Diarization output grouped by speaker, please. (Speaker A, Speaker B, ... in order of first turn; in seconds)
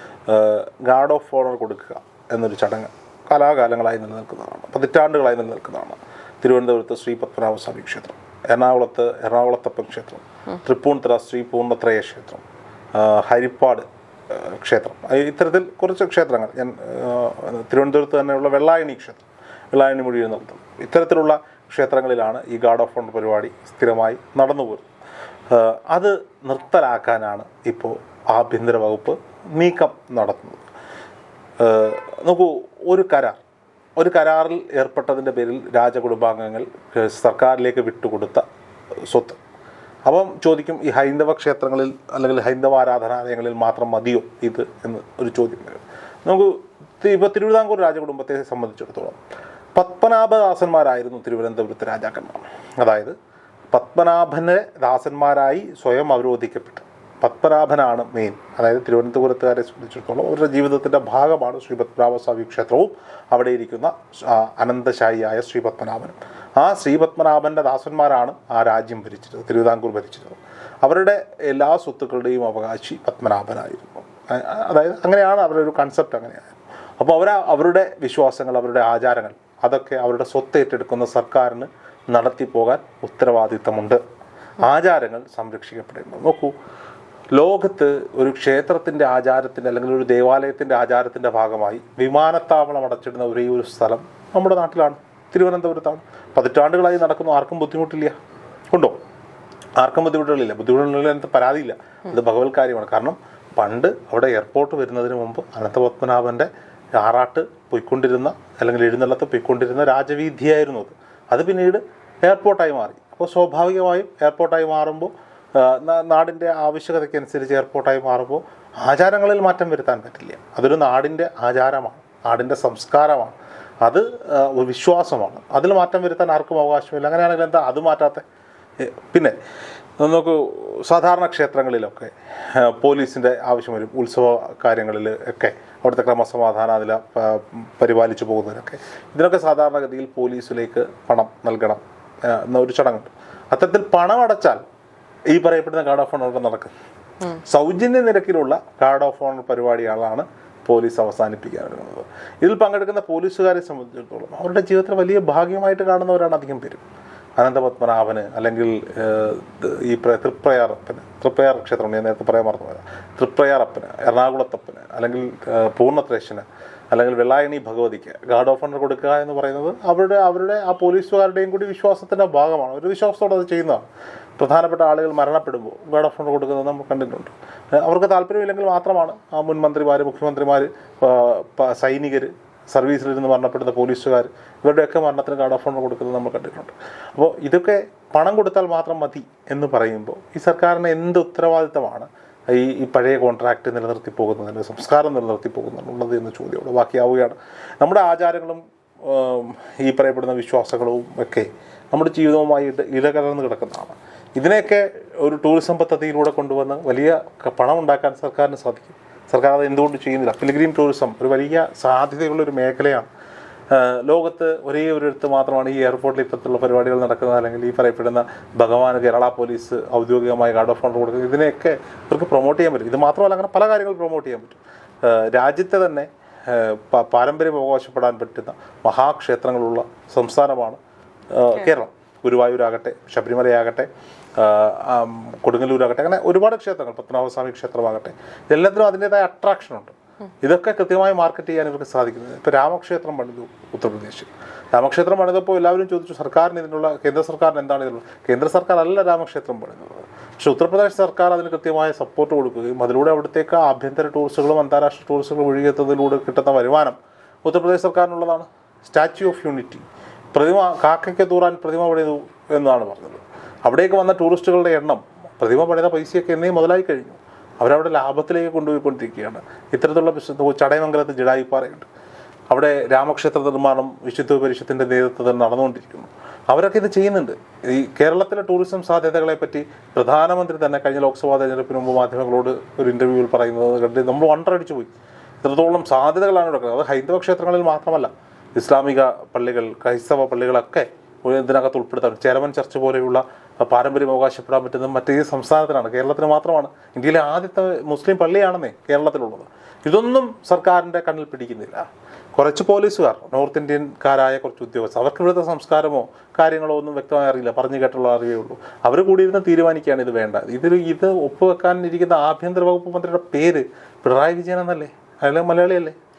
Speaker A: 0.3-12.4, 12.9-24.9, 25.5-30.6, 31.6-33.4, 34.0-38.5, 39.1-39.4, 40.1-49.2, 49.7-53.1, 53.7-84.0, 84.6-86.5, 87.3-98.2, 98.7-99.0, 99.8-128.2, 128.8-129.4, 130.0-144.6, 145.3-146.7, 147.4-156.8, 157.4-173.9, 174.4-213.1, 213.7-230.8, 231.3-271.9, 272.5-315.9